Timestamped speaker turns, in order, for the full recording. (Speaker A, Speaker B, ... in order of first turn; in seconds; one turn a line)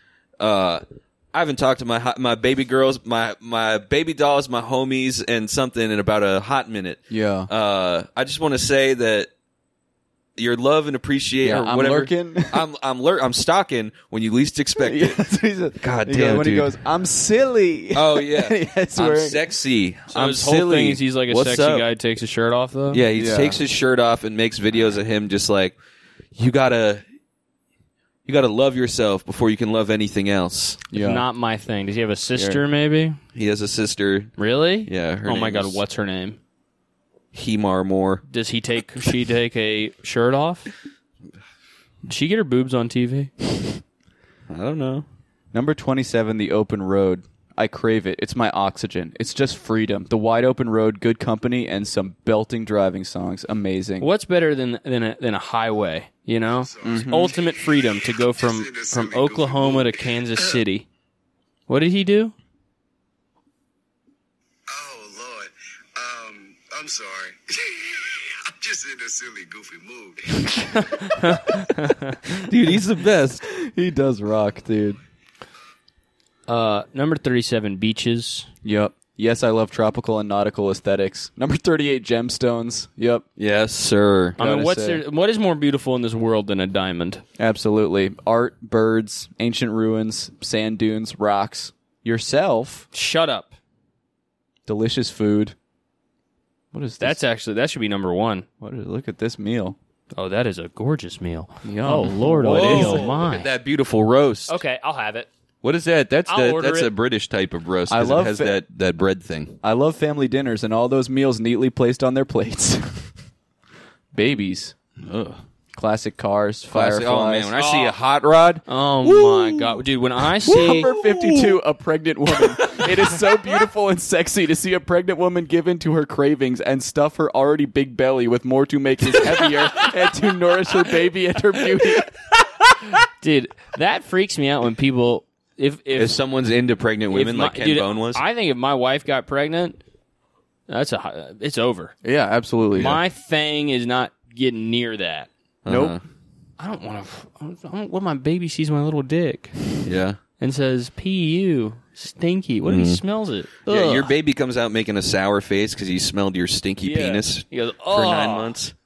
Speaker A: 0.4-9.3
Speaker B: 7.1-7.5
Speaker A: 10.4-15.2
Speaker B: 11.4-12.6
Speaker B: 14.8-19.4
Speaker A: 15.8-16.8
Speaker A: 17.9-21.9
Speaker C: 20.1-23.0
Speaker A: 22.9-25.8
Speaker B: 23.1-23.6
Speaker A: 26.3-27.0
Speaker A: 28.2-30.8
Speaker B: 30.9-31.2
Speaker C: 30.9-33.2
Speaker B: 32.3-32.6
Speaker A: 33.3-35.8
Speaker C: 34.4-36.4
Speaker A: 37.3-38.2
Speaker C: 38.3-40.7
Speaker C: 42.0-43.3
Speaker A: 44.5-45.0
Speaker B: 45.5-54.1
Speaker C: 54.0-60.9
Speaker D: 56.6-60.6
Speaker B: 56.8-57.3
Speaker C: 61.7-62.3
Speaker D: 64.7-71.7
Speaker C: 70.8-72.2
Speaker A: 72.4-73.4
Speaker B: 73.4-75.0
Speaker C: 76.5-78.5
Speaker B: 78.6-83.2
Speaker A: 83.4-84.4
Speaker B: 84.4-85.0
Speaker C: 84.4-87.2
Speaker B: 87.4-92.8
Speaker C: 92.9-93.5
Speaker B: 94.7-95.5
Speaker B: 96.7-97.2
Speaker C: 97.0-98.5
Speaker B: 98.6-99.8
Speaker C: 100.1-103.5
Speaker B: 101.6-103.1
Speaker A: 102.4-104.6
Speaker C: 104.5-105.3
Speaker A: 105.6-109.6
Speaker C: 106.3-106.9
Speaker B: 107.9-108.6
Speaker B: 109.6-113.1
Speaker B: 114.1-114.7
Speaker A: 115.0-115.4
Speaker B: 115.7-117.5
Speaker A: 116.7-119.8
Speaker C: 117.5-118.0
Speaker C: 118.7-120.9
Speaker A: 120.5-121.6
Speaker B: 120.5-132.1
Speaker A: 122.5-122.9
Speaker C: 132.5-136.2
Speaker A: 136.0-138.2
Speaker C: 137.1-139.8
Speaker C: 140.7-141.9
Speaker B: 142.0-143.0
Speaker C: 142.8-145.3
Speaker A: 145.6-146.0
Speaker B: 145.7-146.0
Speaker C: 146.6-149.8
Speaker A: 149.8-150.2
Speaker C: 150.4-154.1
Speaker A: 152.6-153.0
Speaker A: 153.7-158.7
Speaker C: 156.8-158.5